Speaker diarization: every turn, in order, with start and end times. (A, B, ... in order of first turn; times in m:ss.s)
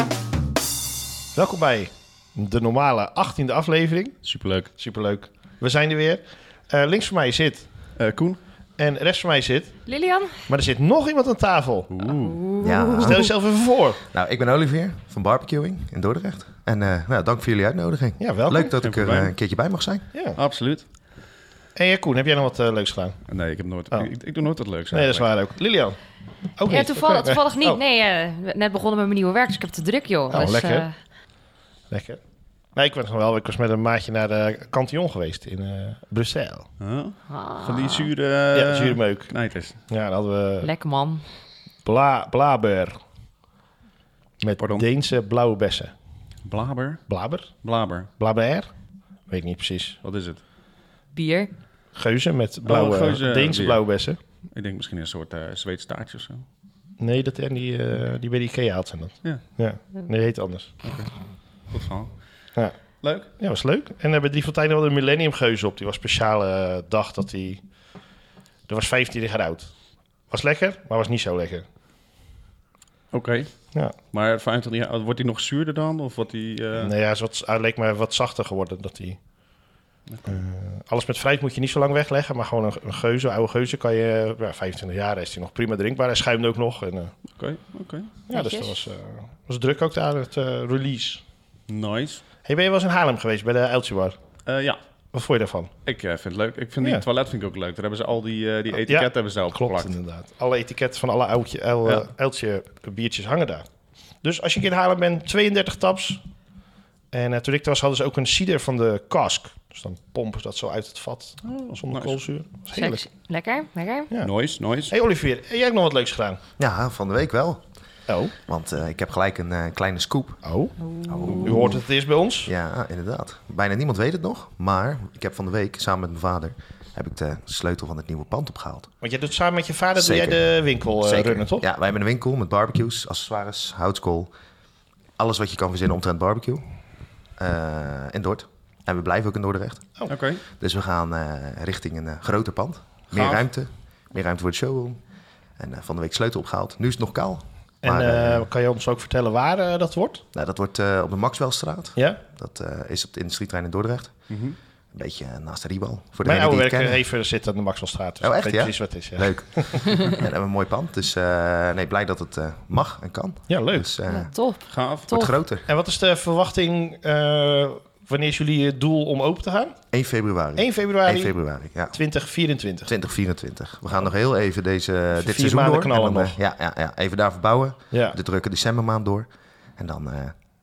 0:01.3-0:04.2 A
0:04.2-0:04.7 B
0:04.8-0:07.7 A
0:08.0-0:08.4 B
0:08.8-0:09.8 A
0:09.8-0:10.3 C
0:10.5-0:11.9 A
0:11.9-0:12.4 B
0:12.2-0:13.2 C
0:12.6-0:13.3 D
0:13.0-0:14.0 A
0:14.0-0:20.1 D
0:18.2-0:18.7 A
0:18.8-0:19.3 B
0:20.1-0:20.4 A
0:20.4-0:20.8 B
0:21.7-0:23.2 A
0:23.3-0:25.3 B
0:24.9-0:26.0 A
0:26.6-0:27.8 A
0:26.6-0:30.9 C
0:30.3-0:30.9 A
0:31.9-0:32.2 A
0:32.7-0:36.7 A
0:36.8-0:39.8 B
0:37.3-0:38.1 C
0:38.5-0:39.3 A
0:39.9-0:40.7 A
0:40.6-0:41.2 C
0:41.8-0:43.0 A
0:44.4-0:45.9 A
0:44.6-0:44.8 B
0:46.4-0:48.1 B
0:47.1-0:47.5 A
0:48.2-0:48.7 A
0:49.3-0:50.0 A
0:50.0-0:50.4 B
0:51.1-0:51.5 C
0:51.9-0:54.2 A
0:52.6-0:53.8 B
0:54.5-0:56.4 B
0:57.0-1:00.8 A
1:00.8-1:01.1 B
1:01.7-1:02.1 B
1:03.0-1:03.3 B
1:03.4-1:07.6 A
1:08.7-1:09.7 A
1:10.3-1:11.6 A
1:13.1-1:16.9 B
1:16.8-1:19.2 A
1:20.1-1:20.4 B
1:20.3-1:27.1 A
1:27.3-1:28.1 B
1:28.3-1:31.2 A
1:28.3-1:28.8 C
1:31.7-1:32.2 B
1:32.4-1:34.2 A
1:34.4-1:34.8 B
1:35.1-1:35.7 A
1:35.8-1:39.9 B
1:38.8-1:43.6 A
1:44.2-1:46.2 A
1:47.1-1:53.0 A
1:51.4-1:52.2 B
1:52.7-1:54.1 C
1:54.2-1:54.9 B
1:54.9-1:56.4 A
1:56.6-1:57.6 D
1:58.1-1:58.3 A
1:58.4-2:00.4 D
2:00.4-2:00.7 A
2:00.8-2:01.5 C
2:01.1-2:01.8 D
2:01.2-2:01.6 B
2:01.4-2:02.5 A
2:02.4-2:08.9 D
2:09.0-2:11.6 A
2:10.0-2:10.4 D
2:11.0-2:14.3 D
2:15.2-2:16.6 D
2:17.4-2:25.0 D
2:20.1-2:20.4 B
2:23.1-2:23.4 B
2:25.6-2:28.5 D
2:27.8-2:30.2 A
2:30.3-2:34.3 D
2:34.3-2:34.6 B
2:34.9-2:37.0 D
2:36.2-2:40.0 A
2:38.2-2:44.3 D
2:43.5-2:43.9 A
2:44.1-2:45.3 C
2:44.7-2:45.1 B
2:45.1-2:45.7 D
2:45.7-2:49.8 A
2:49.9-2:52.0 D
2:50.6-2:51.4 A
2:51.9-2:52.9 A
2:52.8-3:00.3 D
2:55.2-2:56.3 A
2:57.9-2:58.2 A